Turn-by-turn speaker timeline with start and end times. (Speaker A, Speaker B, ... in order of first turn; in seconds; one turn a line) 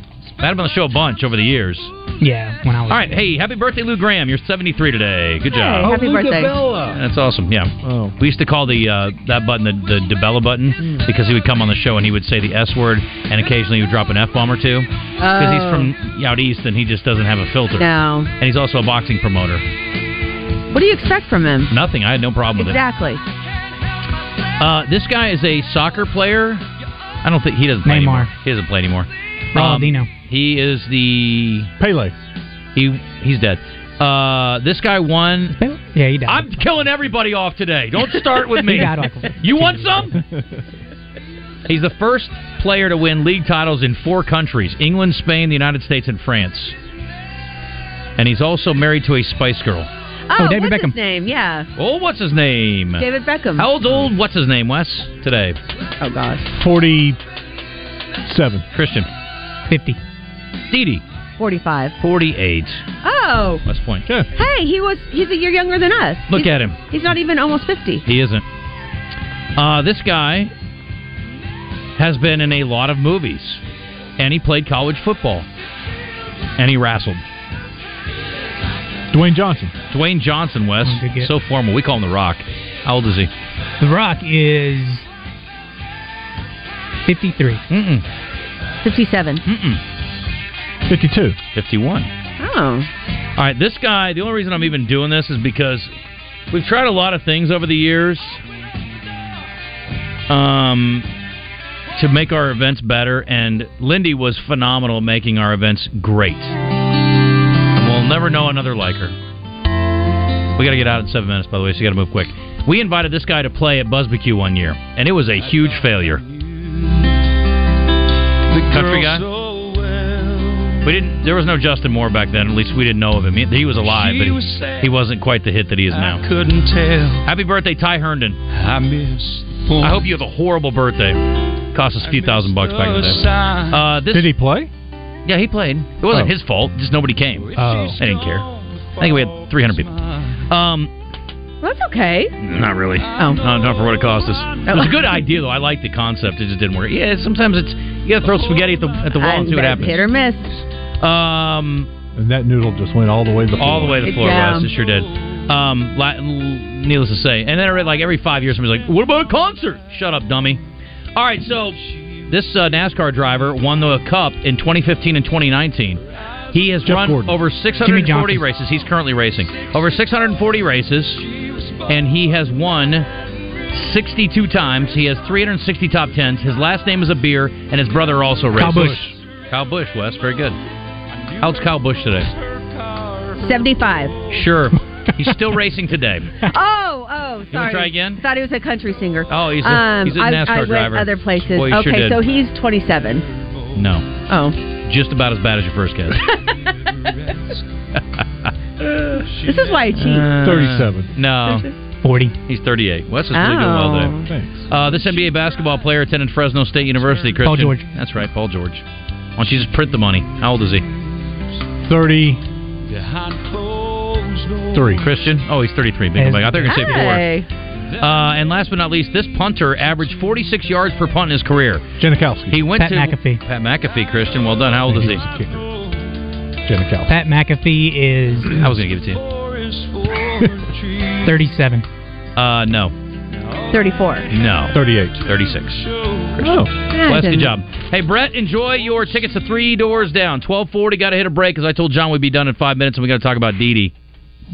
Speaker A: 0.4-1.9
Speaker B: 2.2-3.1
Speaker A: 2.9-6.0
Speaker C: 5.5-6.6
Speaker D: 5.8-7.0
Speaker A: 6.9-19.6
Speaker D: 7.8-8.2
Speaker C: 15.2-15.9
Speaker C: 17.7-18.3
Speaker C: 20.7-21.7
Speaker A: 21.7-22.8
Speaker C: 22.6-23.2
Speaker A: 24.6-26.6
Speaker A: 27.2-31.7
Speaker B: 27.8-28.3
Speaker B: 29.5-30.1
Speaker D: 31.8-32.1
Speaker A: 32.7-35.6
Speaker B: 35.6-36.5
Speaker A: 36.2-40.2
Speaker B: 38.6-40.1
Speaker A: 41.6-46.7
Speaker A: 48.2-49.9
Speaker C: 50.3-51.7
Speaker B: 50.4-50.9
Speaker A: 51.8-55.6
Speaker C: 53.0-53.7
Speaker C: 56.0-56.6
Speaker D: 56.5-57.2
Speaker D: 58.2-58.6
Speaker A: 58.7-59.1
Speaker B: 59.7-60.0
Speaker A: 60.7-61.0
Speaker C: 61.4-62.0
Speaker A: 62.0-62.9
Speaker C: 63.0-63.6
Speaker A: 63.6-64.1
Speaker C: 64.3-68.0
Speaker A: 66.3-66.8
Speaker A: 68.0-68.4
Speaker A: 69.5-70.5
Speaker A: 72.0-73.6
Speaker A: 74.2-75.5
Speaker A: 76.6-77.2
Speaker D: 79.1-79.7
Speaker A: 79.9-83.3
Speaker B: 80.8-81.3
Speaker B: 83.8-85.0
Speaker B: 87.0-87.6
Speaker A: 87.7-88.0
Speaker C: 88.8-89.4
Speaker A: 89.4-89.8
Speaker D: 90.9-91.4
Speaker A: 91.5-92.1
Speaker C: 92.4-92.9
Speaker A: 93.4-95.9
Speaker A: 96.5-98.4
Speaker A: 100.3-101.0
Speaker A: 102.0-106.5
Speaker A: 107.7-109.1
Speaker A: 110.5-116.2
Speaker E: 118.5-120.5
Speaker A: 118.6-119.2
Speaker A: 120.8-126.2
Speaker E: 124.0-124.8
Speaker E: 126.0-127.2
Speaker A: 127.2-128.4
Speaker E: 128.5-129.6
Speaker A: 129.8-134.3
Speaker E: 132.6-133.8
Speaker D: 134.1-134.7
Speaker A: 135.2-139.9
Speaker D: 136.1-136.3
Speaker D: 137.6-138.0
Speaker A: 140.5-140.9
Speaker C: 141.6-142.3
Speaker A: 142.4-150.0
Speaker C: 143.1-143.4
Speaker C: 144.6-144.9
Speaker C: 149.1-150.5
Speaker A: 151.0-151.9
Speaker D: 152.1-154.2
Speaker A: 153.6-160.6
Speaker C: 154.0-154.7
Speaker A: 161.1-171.3
Speaker D: 166.8-167.4
Speaker B: 167.8-168.4
Speaker A: 171.8-173.1
Speaker A: 173.7-180.6
Speaker D: 178.5-179.2
Speaker A: 181.4-182.3
Speaker C: 183.3-184.2
Speaker A: 184.2-186.3
Speaker C: 186.4-193.2
Speaker A: 187.5-188.2
Speaker A: 189.3-192.2
Speaker A: 193.7-194.1
Speaker C: 194.3-194.6
Speaker A: 194.8-196.3
Speaker C: 196.2-196.7
Speaker A: 198.2-199.3
Speaker C: 199.4-200.4
Speaker A: 199.9-201.7
Speaker D: 200.4-201.1
Speaker C: 201.4-201.7
Speaker B: 202.0-202.3
Speaker A: 202.5-208.8
Speaker C: 203.3-204.3
Speaker D: 204.3-204.6
Speaker B: 207.4-207.8
Speaker A: 209.4-210.8
Speaker D: 211.8-212.4
Speaker D: 214.7-215.1
Speaker A: 215.0-217.2
Speaker B: 216.2-216.9
Speaker C: 216.6-217.5
Speaker A: 218.0-221.9
Speaker D: 222.0-222.6
Speaker A: 222.5-225.2
Speaker B: 222.8-223.4
Speaker D: 224.9-225.7
Speaker D: 226.6-227.1
Speaker B: 227.1-228.6
Speaker A: 228.5-229.2
Speaker B: 231.2-231.8
Speaker A: 232.3-232.9
Speaker C: 233.7-234.3
Speaker A: 234.3-243.9
Speaker D: 234.7-235.2
Speaker D: 236.4-236.7
Speaker C: 236.8-237.6